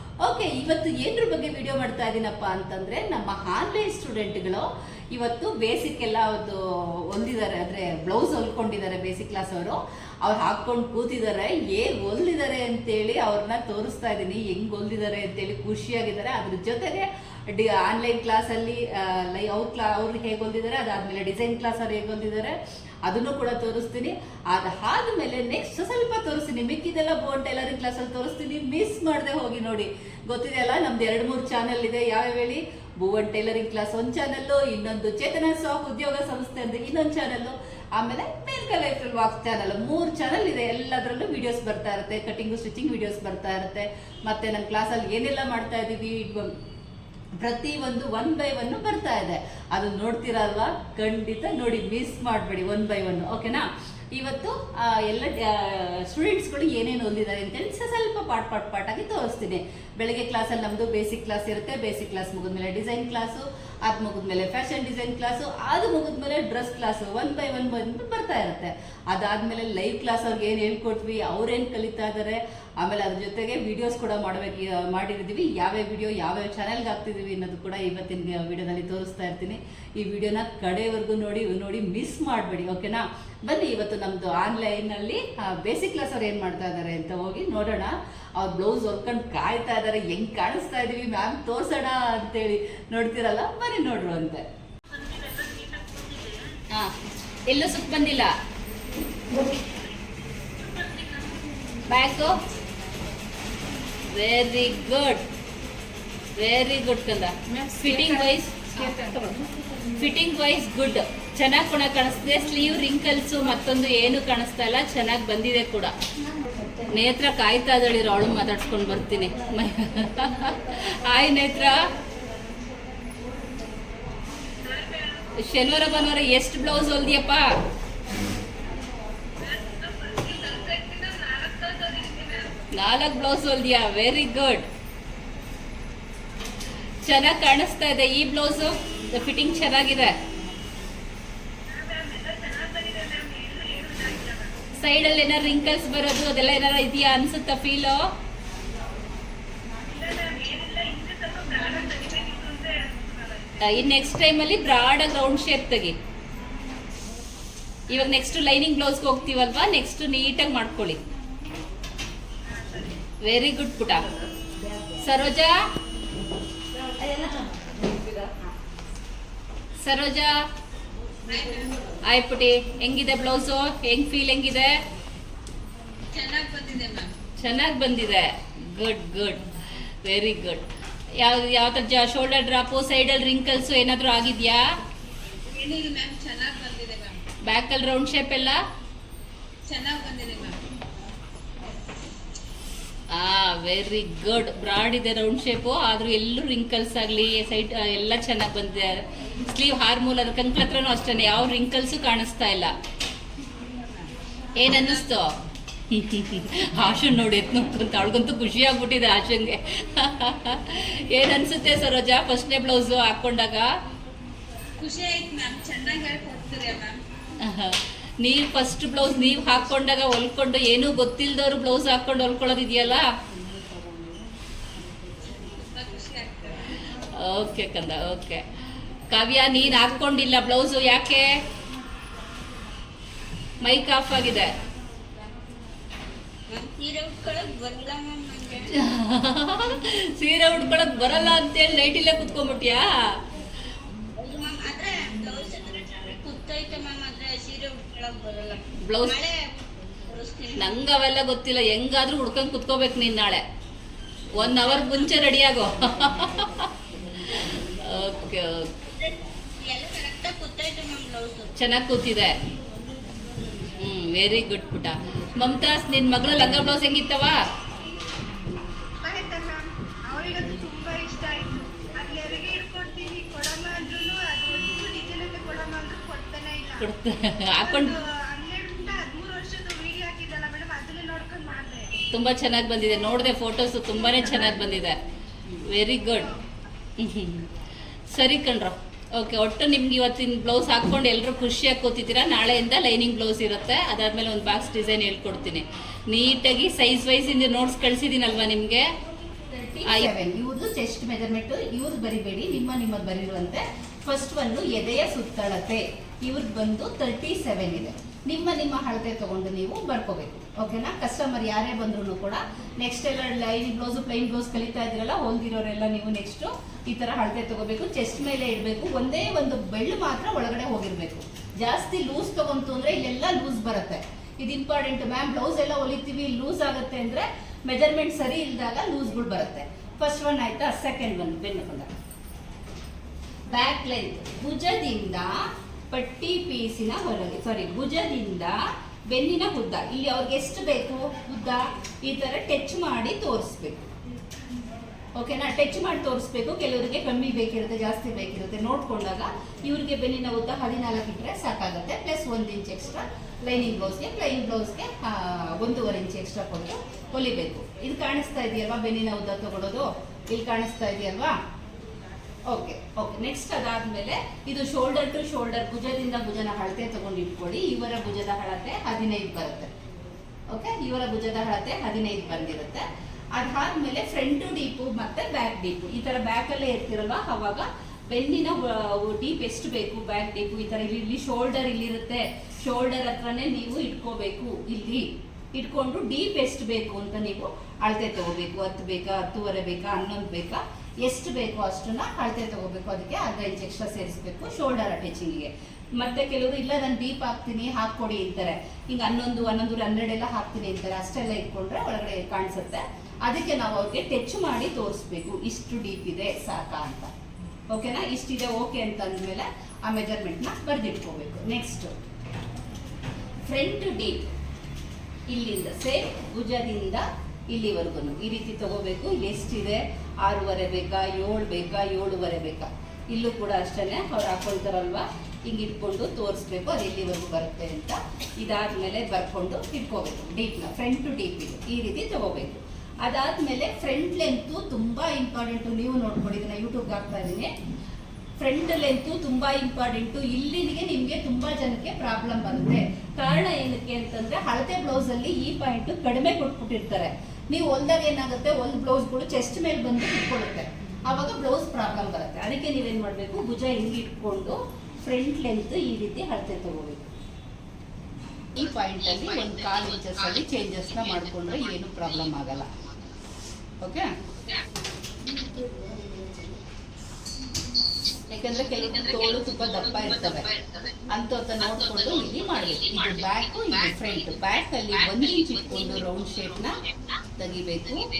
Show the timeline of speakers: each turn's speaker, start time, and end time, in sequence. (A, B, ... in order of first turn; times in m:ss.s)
0:00.2-0:46.5 A
0:47.4-1:34.4 A
1:34.9-1:36.6 B
1:37.4-1:38.3 A
1:40.6-1:41.4 B
1:41.9-1:42.4 A
1:44.0-1:45.2 A
1:46.4-1:55.9 A
1:56.8-2:01.9 A
2:04.7-2:05.2 B
2:05.3-2:07.5 A
2:09.4-2:11.9 B
2:11.8-2:12.7 C
2:12.7-2:14.6 A
2:17.0-2:20.1 A
2:21.7-2:24.6 C
2:24.8-2:28.0 A
2:29.8-2:33.7 C
2:33.6-2:35.9 A
2:37.9-2:41.0 A
2:42.4-2:43.0 C
2:43.2-2:44.0 A
2:45.0-2:45.6 A
2:47.0-2:48.3 A
2:49.8-2:50.4 A
2:51.2-2:51.7 B
2:52.1-2:54.8 A
2:56.1-2:57.1 B
2:57.4-3:00.6 A
3:01.2-3:04.6 A
3:05.5-3:07.2 B
3:07.4-3:08.6 A
3:09.7-3:10.6 B
3:13.1-3:22.7 A
3:24.6-3:25.4 A
3:24.6-3:25.0 B
3:25.9-3:33.7 A
3:34.8-3:37.0 B
3:37.4-3:43.1 A
3:45.4-3:46.6 B
3:46.9-3:48.4 A
3:49.1-3:51.4 A
3:53.6-3:54.5 A
3:56.5-3:58.7 B
3:58.7-4:03.1 A
4:04.2-4:09.5 B
4:08.8-4:09.2 A
4:10.1-4:10.6 B
4:10.6-4:13.4 A
4:14.3-4:18.7 A
4:18.9-4:21.5 B
4:21.6-4:22.4 A
4:23.8-4:27.4 A
4:29.0-4:36.9 C
4:36.8-4:37.9 A
4:37.6-4:41.9 C
4:42.1-4:45.0 A
4:45.5-4:46.3 A
4:47.0-4:47.5 A
4:48.1-4:58.8 A
4:59.5-5:31.9 A
5:33.5-5:43.9 A
5:45.2-6:01.3 A
6:02.5-6:09.7 A
6:10.5-6:47.1 A
6:47.7-6:51.9 A
6:53.4-6:54.2 A
6:55.3-7:17.5 A
7:18.4-7:37.1 A
7:38.5-7:42.7 A
7:43.8-7:44.1 A
7:48.3-7:56.8 A
7:57.4-7:58.1 A